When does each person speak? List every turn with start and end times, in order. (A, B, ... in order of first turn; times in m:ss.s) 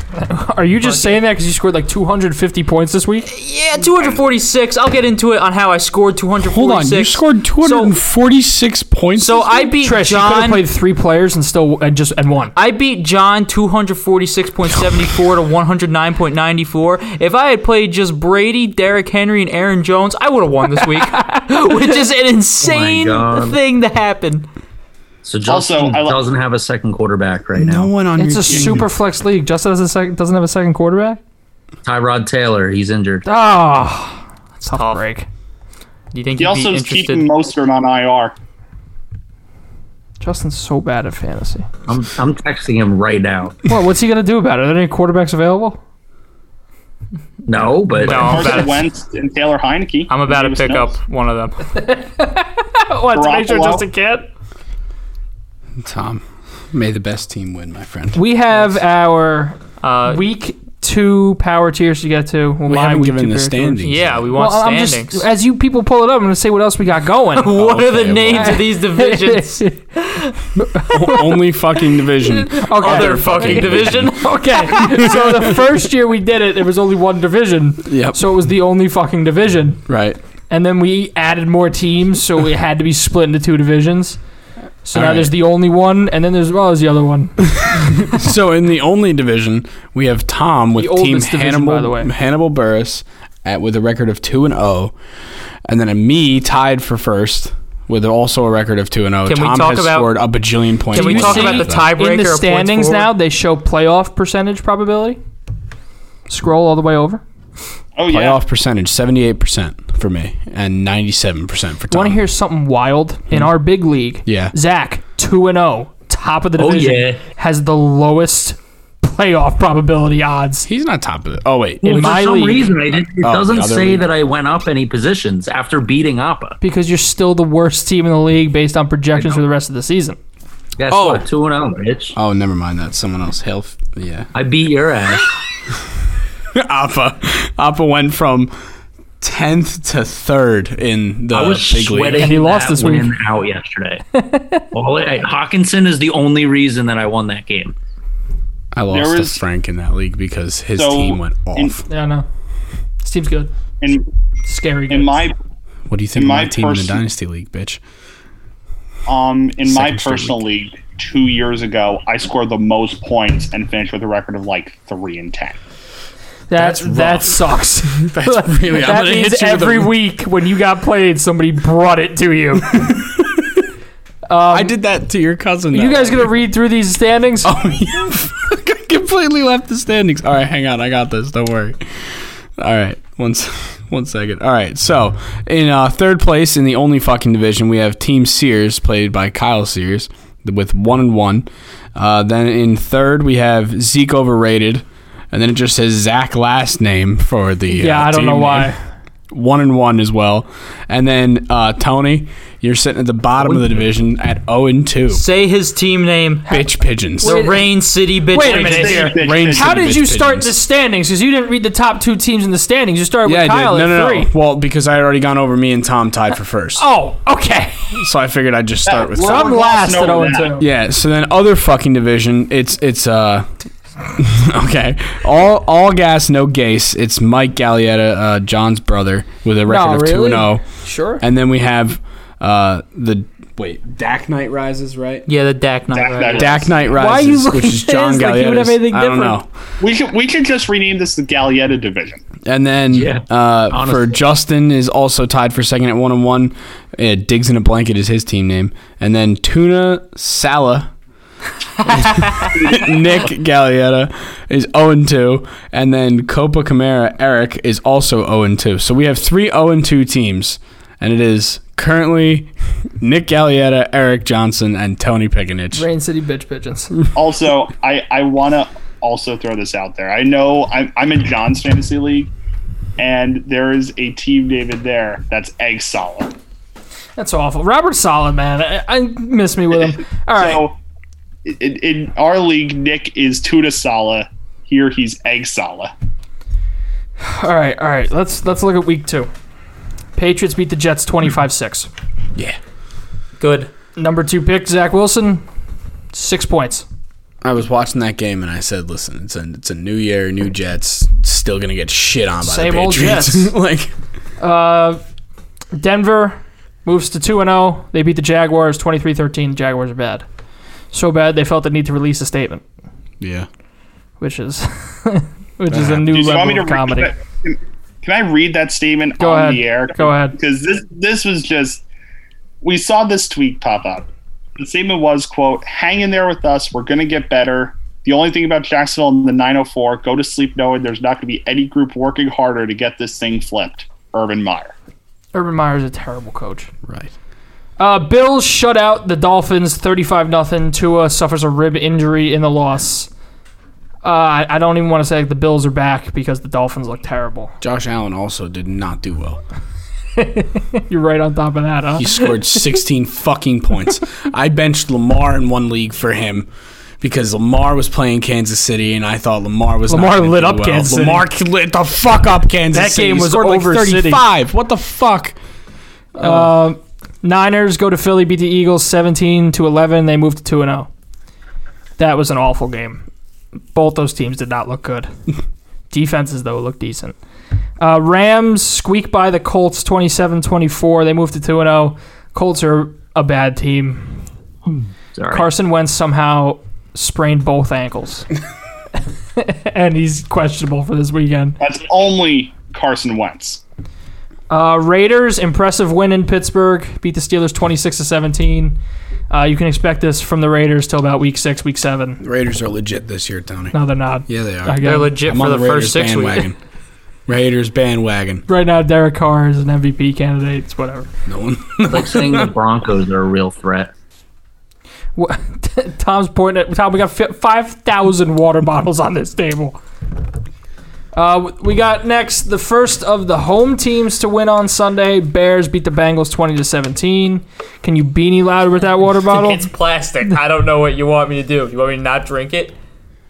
0:00.2-0:03.3 A
0:00.8-0:01.2 B
0:03.3-0:07.9 B
0:06.4-0:09.7 C
0:09.2-0:10.6 B
0:09.8-0:12.5 A
0:12.5-0:24.4 B
0:20.8-0:22.1 A
0:22.6-0:23.6 D
0:25.2-0:27.9 D
0:25.4-0:26.3 E
0:27.6-0:28.9 C
0:28.2-0:31.2 A
0:31.8-0:33.2 D
0:33.2-0:35.3 A
0:34.6-0:35.0 B
0:36.1-0:37.3 B
0:36.4-0:38.3 E
0:40.2-0:41.7 A
0:41.9-0:43.6 D
0:43.7-0:45.8 A
0:47.4-0:48.5 D
0:48.0-0:48.9 B
0:48.1-0:50.9 E
0:48.3-0:48.6 A
0:50.1-0:51.7 B
0:51.8-0:54.3 A
0:53.1-0:53.8 E
0:55.8-0:58.2 C
0:58.1-1:07.5 A
0:59.8-1:00.2 B
1:02.7-1:04.3 C
1:03.8-1:05.3 B
1:07.3-1:09.8 B
1:07.5-1:08.6 C
1:08.3-1:11.5 A
1:10.9-1:15.6 C
1:12.1-1:19.8 A
1:12.6-1:15.1 B
1:17.8-1:18.3 C
1:19.9-1:20.2 C
1:20.5-1:24.2 A
1:24.8-1:27.9 A
1:24.9-1:25.3 C
1:27.6-1:34.9 C
1:30.8-1:32.1 A
1:35.6-1:41.9 C
1:39.2-1:40.2 B
1:40.9-1:43.1 B
1:40.9-1:45.2 A
1:46.3-1:47.2 A
1:48.0-1:48.4 E
1:48.1-1:52.2 C
1:51.9-2:00.7 A
1:54.2-1:54.5 C
1:56.6-1:57.2 D
2:00.6-2:02.1 C
2:01.8-2:06.6 D
2:01.8-2:02.7 A
2:03.1-2:04.1 C
2:06.6-2:10.2 A
2:10.8-2:12.1 D
2:10.9-2:11.3 C
2:12.2-2:14.3 C
2:14.3-2:15.2 D
2:16.5-2:18.5 C
2:19.2-2:22.3 C
2:21.3-2:24.0 D
2:22.1-2:23.1 A
2:24.1-2:24.7 A
2:24.7-2:27.7 D
2:28.7-2:31.8 C
2:28.9-2:29.4 E
2:30.7-2:31.8 E
2:31.9-2:32.2 A
2:33.0-2:33.5 A
2:33.8-2:34.1 E
2:34.4-2:35.2 A
2:34.9-2:35.3 E
2:35.9-2:37.8 C
2:36.2-2:37.0 E
2:39.1-2:45.6 E
2:39.6-2:40.4 C
2:46.5-2:52.9 A
2:46.6-2:50.0 C
2:52.9-2:53.4 C
2:54.3-2:54.7 A
2:54.5-2:56.3 C
2:55.7-2:57.5 A
2:57.4-3:18.7 C
3:17.7-3:18.8 A
3:19.3-3:25.2 C
3:23.4-3:23.7 D
3:25.1-3:26.6 B
3:26.5-3:27.3 C
3:27.2-3:27.7 A
3:27.2-3:29.1 B
3:28.3-3:34.3 A
3:28.4-3:29.7 E
3:29.1-3:30.6 C
3:33.2-3:36.8 C
3:36.8-3:38.0 A
3:38.0-3:39.9 C
3:38.8-3:40.6 E
3:39.2-3:40.7 A
3:40.6-3:43.5 C
3:44.1-3:50.6 C
3:49.7-3:51.2 A
3:51.2-3:55.3 C
3:55.3-3:56.7 B
3:55.9-3:56.8 E
3:56.3-3:59.5 C
3:57.0-3:59.4 A
3:59.8-4:02.2 E
4:02.4-4:10.9 C
4:02.9-4:04.0 D
4:11.8-4:12.7 B
4:11.9-4:25.9 C
4:12.6-4:13.0 E
4:25.7-4:26.9 A
4:27.1-4:32.3 E
4:33.0-4:36.3 E
4:37.2-4:40.6 A
4:40.4-4:40.8 E
4:41.4-4:45.9 E
4:47.2-4:49.3 A
4:50.2-4:51.9 A
4:53.4-4:53.7 B
4:54.0-4:55.4 A
4:56.1-4:56.8 A
4:57.4-5:03.9 C
5:02.4-5:03.5 A
5:04.4-5:05.0 A
5:05.7-5:10.2 A
5:10.9-5:12.6 A
5:13.2-5:13.5 C
5:14.2-5:17.1 A
5:15.7-5:16.2 C
5:16.1-5:21.8 E
5:19.2-5:20.4 A
5:22.6-5:34.7 E
5:35.3-5:36.7 A
5:36.8-5:37.1 C
5:37.8-5:43.1 A
5:44.0-5:47.5 A
5:47.6-5:49.4 C
5:50.2-5:52.6 A
5:52.0-5:56.5 C
5:57.0-6:05.4 C
5:59.9-6:01.2 A
6:02.7-6:04.2 A
6:06.1-6:06.6 C
6:06.2-6:10.9 A
6:12.0-6:13.0 A
6:13.7-6:15.1 A
6:15.9-6:17.1 A
6:17.8-6:24.2 A
6:25.1-6:25.5 D
6:25.3-6:28.3 A
6:29.4-6:31.6 A
6:31.6-6:33.6 E
6:34.5-6:38.8 A
6:39.3-6:42.2 A
6:42.2-6:46.6 C
6:43.7-6:45.2 A
6:44.8-6:46.5 B
6:47.3-6:48.4 C
6:48.5-6:51.1 A
6:51.2-6:52.5 C
6:51.9-6:53.9 D
6:55.2-6:59.8 A
7:01.1-7:09.7 A
7:09.2-7:12.7 B